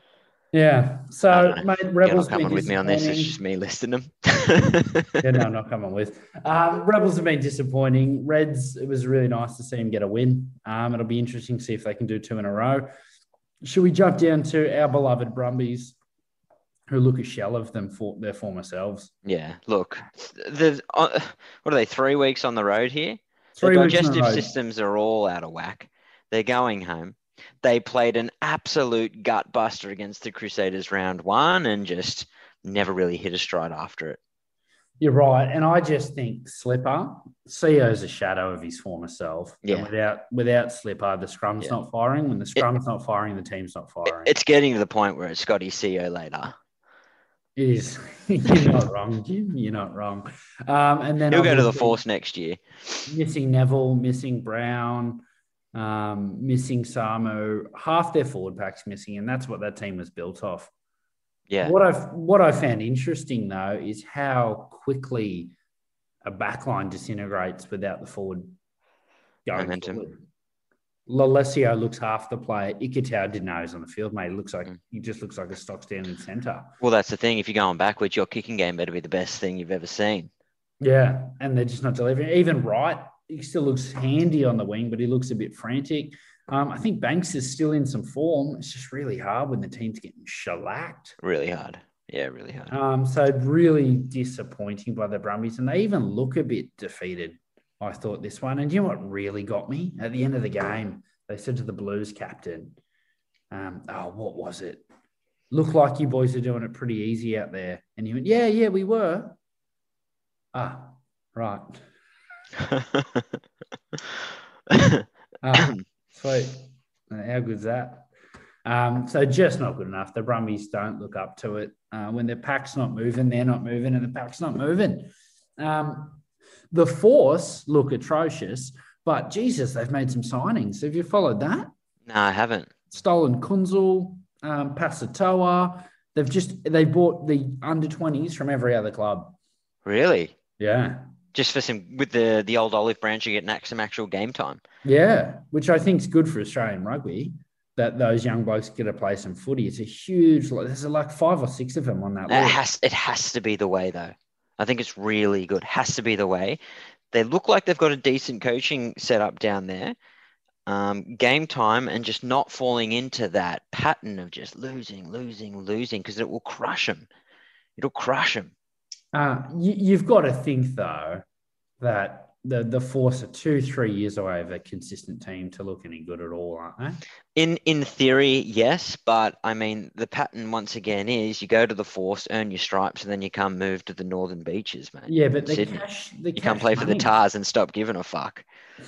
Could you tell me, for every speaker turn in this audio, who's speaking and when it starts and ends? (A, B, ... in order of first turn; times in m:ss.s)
0:00.5-0:03.4 A
0:01.3-0:05.2 B
0:05.2-0:12.9 A
0:13.6-0:16.0 A
0:16.9-0:19.1 A
0:19.2-0:34.2 B
0:23.6-0:24.5 A
0:35.0-0:44.3 A
0:39.6-0:39.9 B
0:44.1-0:46.5 B
0:47.6-0:52.0 A
0:51.3-0:52.6 B
0:53.1-0:55.2 A
0:55.7-1:00.7 A
1:01.5-1:01.8 B
1:01.6-1:05.5 A
1:06.2-1:08.6 A
1:09.4-1:10.2 A
1:09.5-1:10.0 B
1:11.1-1:16.7 A
1:16.8-1:20.3 B
1:20.8-1:31.2 A
1:31.2-1:32.7 B
1:32.7-1:42.8 A
1:43.5-1:44.8 A
1:45.5-1:49.4 A
1:50.5-1:51.8 A
1:52.6-1:53.2 B
1:54.7-1:55.8 B
1:55.4-1:58.1 A
1:58.6-2:11.7 A
2:12.0-2:12.7 B
2:12.9-2:19.4 A
2:19.8-2:20.3 B
2:20.6-2:21.1 A
2:21.3-2:24.6 B
2:24.8-2:32.6 A
2:32.3-2:36.6 B
2:37.1-2:39.9 B
2:40.6-2:47.1 B
2:47.8-2:48.5 B
2:49.1-2:51.2 A
2:51.8-2:57.0 A
2:57.4-3:05.8 B
3:05.1-3:07.1 A
3:06.4-3:08.4 B